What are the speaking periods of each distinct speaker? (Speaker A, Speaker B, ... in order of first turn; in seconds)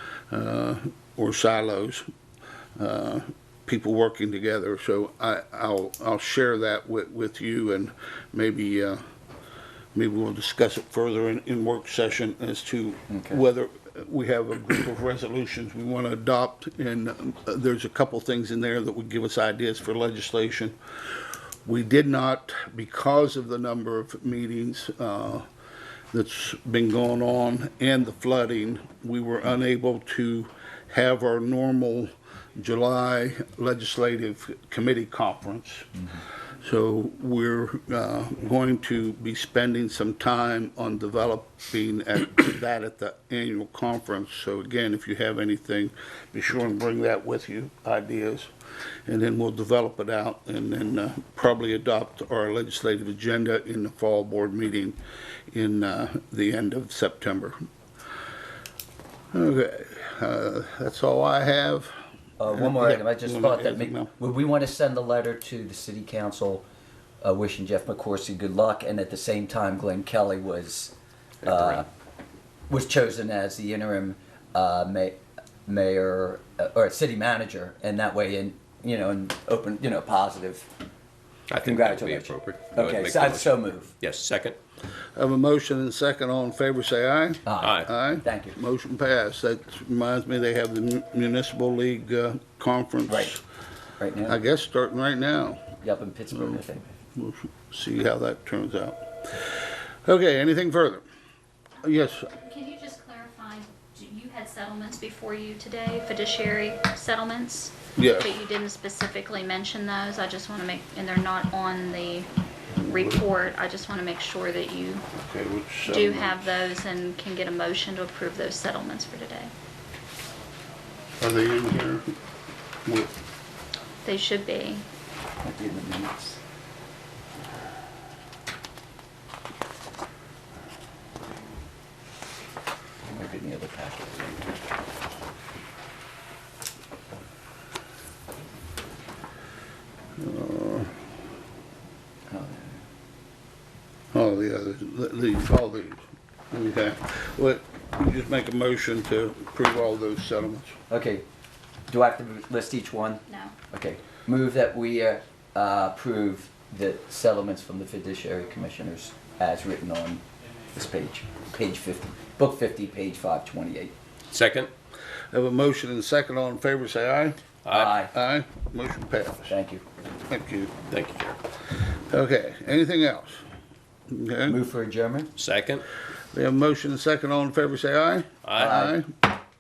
Speaker A: 0.3-2.1, 2.8-9.0, 9.9-20.8, 21.6-25.5, 26.1-36.0, 36.6-48.5, 49.1-55.0, 55.5-57.6, 59.3-64.2, 85.2-93.4, 94.3-95.7, 96.3-96.6, 97.2-101.0, 101.8-102.3, 108.0-108.3, 112.8-113.2, 115.2-116.5, 121.2-122.1, 122.8-123.1, 140.2-141.0, 144.1-150.8, 165.3-167.4, 168.0-169.6, 170.3-170.7, 172.1-173.4, 174.1-174.6, 176.3-179.2
Speaker B: 13.1-13.4, 62.4-66.7, 67.2-70.9, 71.4-71.9, 72.7-80.7, 81.6-83.9, 87.5-88.6, 93.1-93.3, 94.0-94.4, 95.8-96.9, 125.4-126.4, 133.1-134.5, 142.3-142.8, 150.9-151.2, 151.9-163.9, 167.7-168.1, 169.5-169.8, 174.5-175.4, 178.6-179.0
Speaker C: 71.5-71.8, 81.5-84.6, 87.6-87.9, 164.3-164.7, 167.7-167.9, 170.9-171.4, 175.4-175.8, 178.4-178.7
Speaker D: 102.3-115.0, 115.9-119.5, 124.0-124.9, 153.3-153.5